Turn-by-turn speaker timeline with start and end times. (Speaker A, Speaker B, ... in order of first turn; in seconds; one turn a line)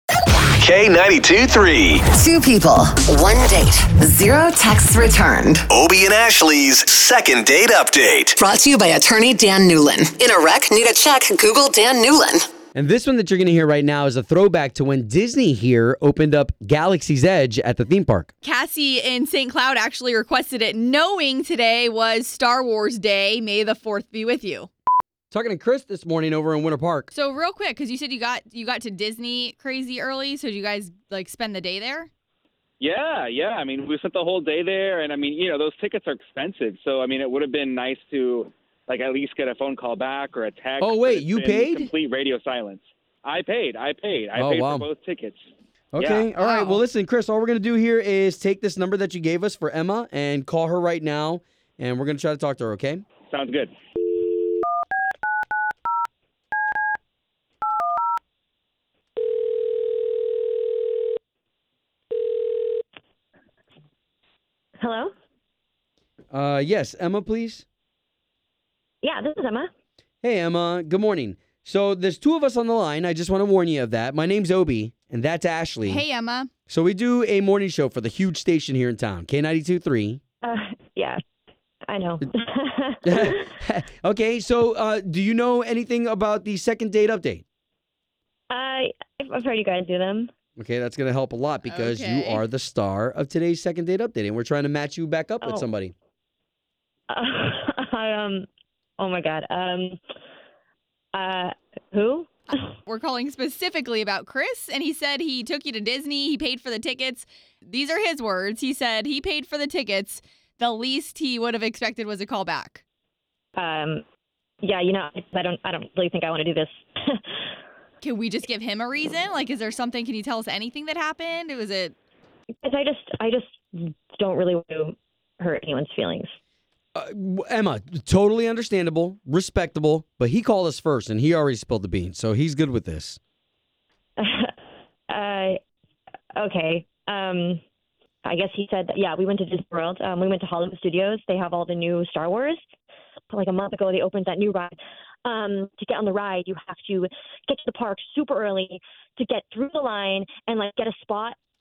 Speaker A: 0.5-2.0
Speaker B: 2.1-5.6
Speaker A: 5.7-8.4
Speaker B: 8.4-12.5
Speaker C: 12.7-18.3
Speaker D: 18.4-24.7
Speaker C: 25.3-27.1
Speaker D: 27.1-32.1
Speaker E: 32.8-44.3
Speaker D: 40.6-40.9
Speaker C: 40.8-41.9
Speaker D: 44.3-44.7
Speaker C: 44.3-44.9
Speaker E: 44.9-45.4
Speaker C: 45.9-53.0
Speaker D: 46.0-46.8
Speaker D: 53.3-53.7
Speaker F: 64.8-65.1
Speaker C: 66.3-67.6
Speaker F: 69.0-69.7
Speaker C: 70.2-76.0
Speaker D: 75.9-76.5
Speaker C: 76.7-80.2
Speaker F: 80.4-81.2
Speaker F: 81.9-83.4
Speaker C: 83.0-87.4
Speaker F: 88.5-90.3
Speaker C: 90.6-95.9
Speaker D: 91.6-92.4
Speaker F: 97.1-98.5
Speaker F: 99.0-100.0
Speaker F: 101.1-102.3
Speaker D: 102.8-112.8
Speaker F: 113.5-114.0
Speaker F: 114.6-117.3
Speaker D: 118.0-121.9
Speaker F: 122.6-126.3
Speaker C: 126.9-133.2
Speaker F: 134.2-134.5
Speaker F: 135.1-135.6
Speaker F: 136.3-137.6
Speaker F: 138.2-142.6
Speaker F: 143.3-151.3